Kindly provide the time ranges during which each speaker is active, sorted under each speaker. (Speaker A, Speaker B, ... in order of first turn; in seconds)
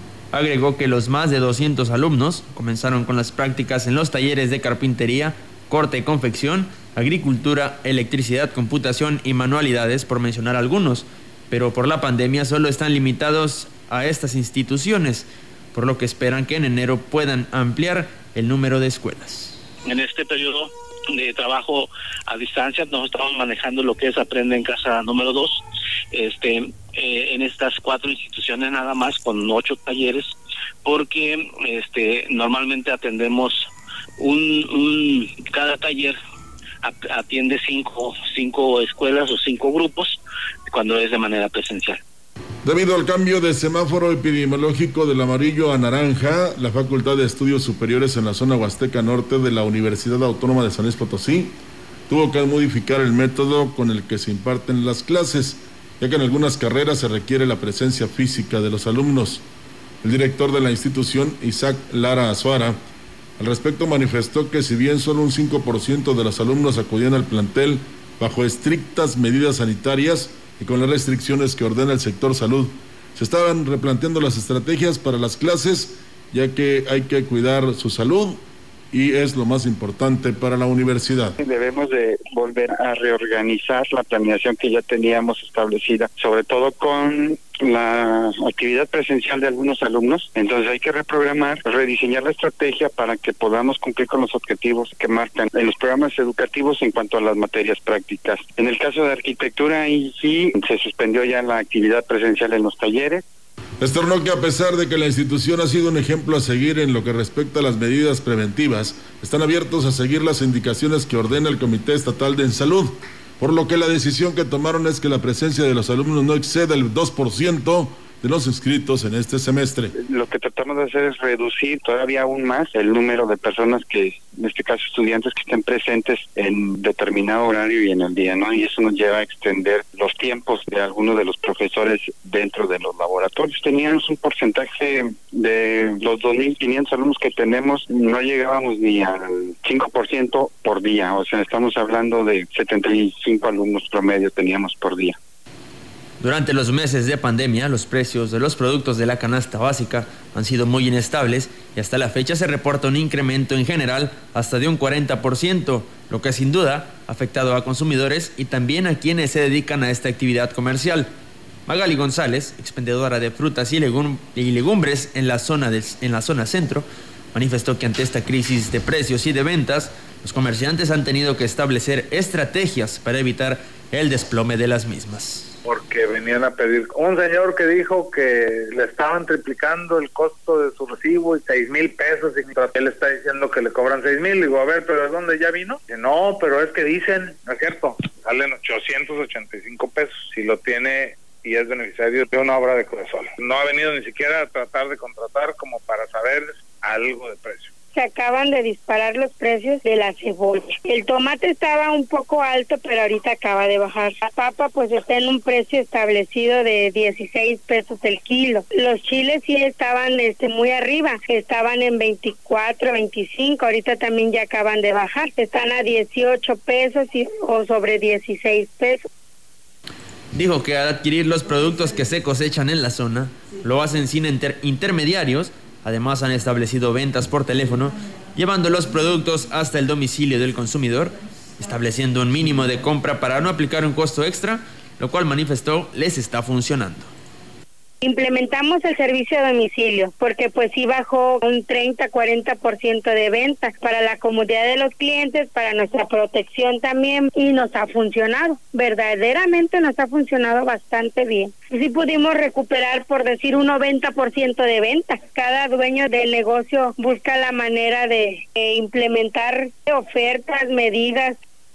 Speaker A: 0.3-19.6, 146.2-161.1, 161.7-175.5, 220.3-237.1
Speaker B: 19.9-25.6, 26.1-30.3, 30.9-33.6, 34.2-36.2, 36.8-40.2, 40.7-42.0
Speaker C: 42.6-51.5, 52.1-59.4, 60.0-62.8, 63.4-81.3, 103.8-119.9
Speaker D: 81.4-103.2, 119.9-145.2
Speaker E: 175.6-197.7
Speaker F: 197.9-219.1, 238.0-261.4